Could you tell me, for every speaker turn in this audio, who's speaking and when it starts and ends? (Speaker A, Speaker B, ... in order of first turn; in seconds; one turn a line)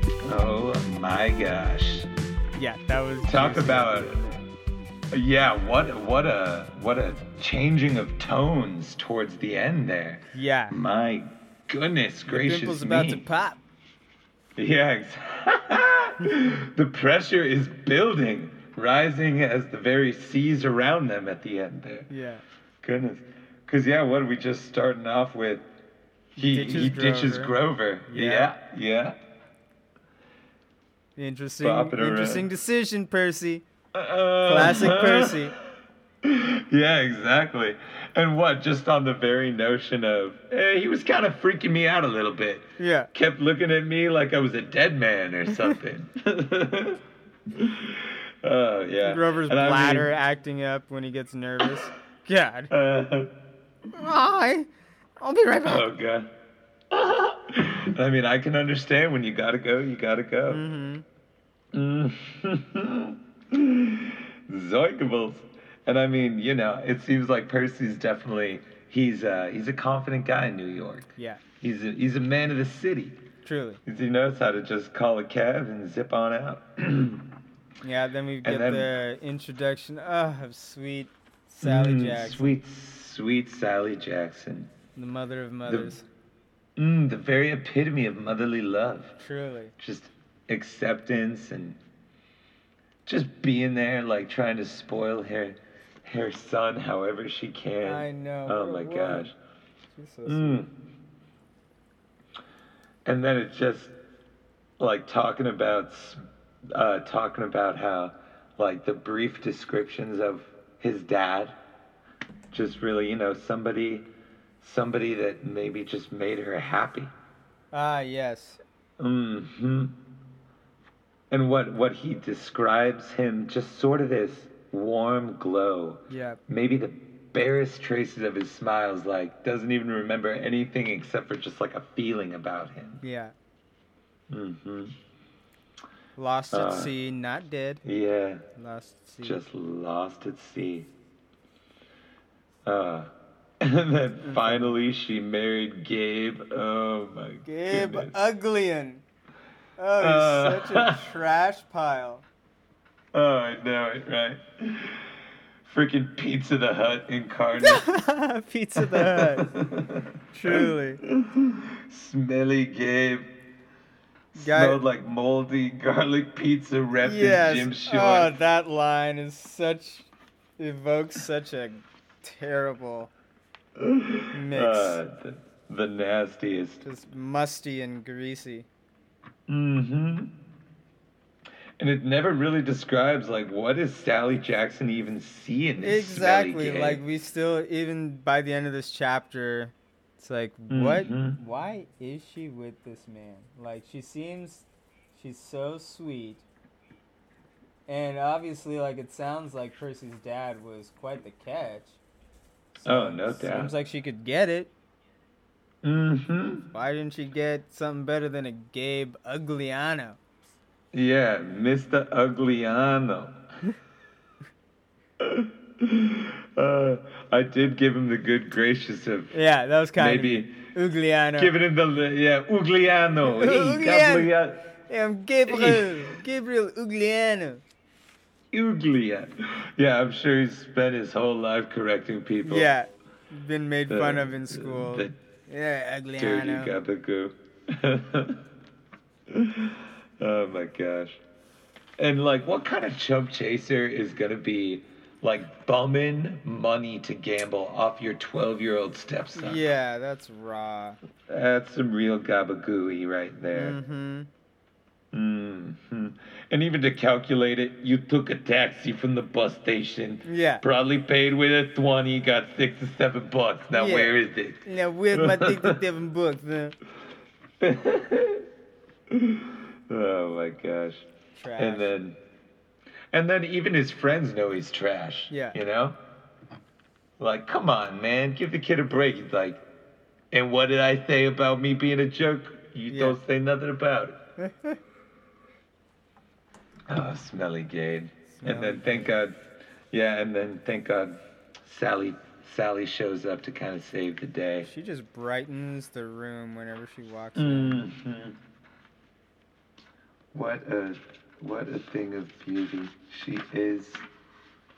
Speaker A: 0.2-2.1
Speaker B: 2.5-4.4
Speaker A: 3.3-4.2
Speaker A: 5.1-13.2
Speaker B: 10.3-10.8
Speaker B: 12.3-13.6
Speaker A: 14.6-22.1
Speaker B: 22.1-22.4
Speaker A: 22.8-25.6
Speaker B: 26.4-27.5
Speaker A: 26.4-29.2
Speaker B: 28.1-28.5
Speaker B: 31.1-33.6
Speaker A: 31.6-32.5
Speaker A: 33.9-35.5
Speaker B: 34.4-35.5
Speaker A: 36.2-47.0
Speaker B: 42.8-43.1
Speaker A: 47.5-50.1
Speaker B: 49.0-52.7
Speaker A: 52.7-53.3
Speaker B: 53.9-54.7
Speaker B: 55.2-55.9
Speaker A: 55.6-56.3
Speaker A: 56.9-60.6
Speaker B: 60.5-61.0
Speaker A: 61.7-73.2
Speaker B: 73.4-73.8
Speaker A: 73.8-77.2
Speaker B: 77.8-82.5
Speaker A: 78.4-78.9
Speaker A: 81.6-84.7
Speaker B: 85.0-86.0
Speaker A: 85.7-85.9
Speaker A: 86.8-89.2
Speaker B: 89.2-89.7
Speaker A: 89.8-91.8
Speaker A: 93.0-99.3
Speaker B: 97.8-99.3
Speaker B: 99.9-100.7
Speaker A: 100.2-100.7
Speaker A: 103.0-103.9
Speaker A: 104.8-106.2
Speaker A: 106.7-111.6
Speaker A: 112.5-114.1
Speaker A: 114.6-117.1
Speaker B: 117.7-118.6
Speaker A: 119.0-119.9
Speaker A: 121.3-133.0
Speaker B: 126.1-126.4
Speaker B: 133.0-133.3
Speaker A: 134.3-134.9
Speaker B: 136.2-137.8
Speaker A: 136.5-136.9
Speaker A: 137.8-138.4
Speaker B: 138.6-139.4
Speaker A: 139.2-140.9
Speaker A: 142.6-143.1
Speaker A: 143.6-148.1
Speaker B: 144.2-144.7
Speaker B: 147.4-149.0
Speaker B: 149.8-152.2
Speaker A: 150.0-151.1
Speaker A: 153.1-155.1
Speaker A: 155.6-157.8
Speaker B: 157.6-159.5
Speaker A: 158.8-163.3
Speaker B: 160.3-161.0
Speaker A: 164.3-168.3
Speaker B: 164.3-164.8
Speaker B: 167.0-173.1
Speaker A: 173.8-176.8
Speaker B: 174.3-175.0
Speaker B: 176.8-178.7
Speaker A: 179.5-180.3
Speaker A: 181.8-187.0
Speaker B: 185.8-196.4
Speaker A: 190.7-191.4
Speaker B: 197.9-202.0
Speaker B: 202.7-204.7
Speaker A: 202.8-203.7
Speaker A: 205.8-206.7
Speaker B: 206.7-210.2
Speaker A: 210.9-213.3
Speaker A: 215.2-219.3
Speaker B: 219.3-221.5
Speaker A: 219.9-220.5
Speaker A: 221.4-224.6
Speaker B: 223.2-224.3
Speaker B: 224.8-227.6
Speaker A: 225.4-226.2
Speaker A: 228.5-232.7
Speaker B: 232.4-236.8
Speaker A: 233.9-235.2
Speaker A: 236.2-238.4
Speaker A: 239.3-241.2
Speaker A: 242.0-249.6
Speaker B: 249.3-251.0
Speaker A: 251.3-253.8
Speaker B: 253.5-254.3
Speaker A: 255.1-265.8
Speaker B: 260.2-260.6
Speaker B: 263.7-266.8
Speaker A: 267.6-268.4
Speaker A: 269.1-272.2
Speaker B: 271.3-271.9
Speaker A: 273.1-276.0
Speaker B: 275.3-275.6
Speaker A: 277.2-279.6
Speaker A: 280.3-284.2
Speaker B: 282.9-283.2
Speaker B: 284.4-284.8
Speaker A: 286.9-289.4
Speaker B: 288.3-289.1
Speaker A: 289.9-294.7
Speaker B: 294.6-297.8
Speaker A: 297.4-298.4
Speaker A: 300.3-304.0